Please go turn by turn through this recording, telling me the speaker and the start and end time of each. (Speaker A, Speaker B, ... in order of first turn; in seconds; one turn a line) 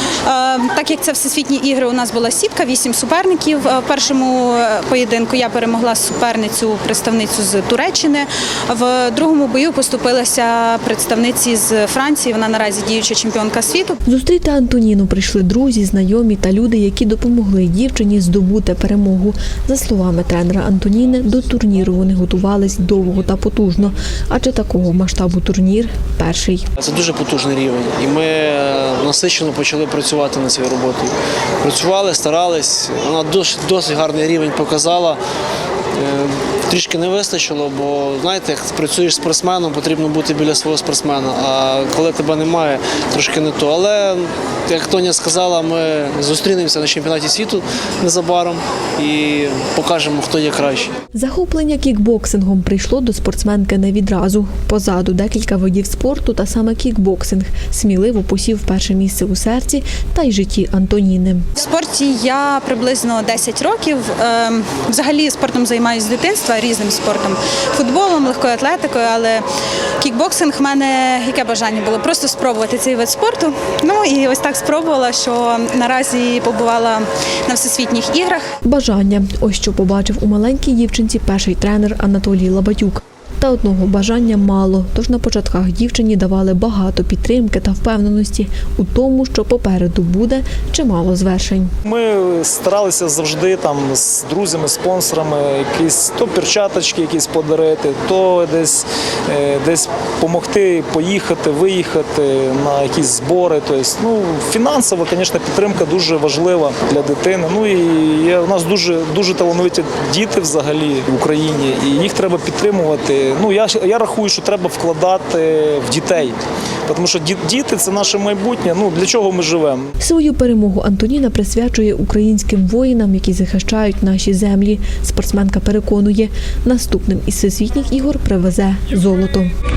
Speaker A: 0.2-14.0
Speaker B: 14.1-26.6
Speaker C: 26.8-35.2
Speaker C: 36.0-50.9
Speaker B: 51.1-61.5
Speaker A: 61.6-69.5
Speaker A: 70.0-78.5
Speaker B: 78.6-91.7
Speaker D: 91.8-116.4
Speaker D: 116.9-119.9
Speaker B: 120.0-129.5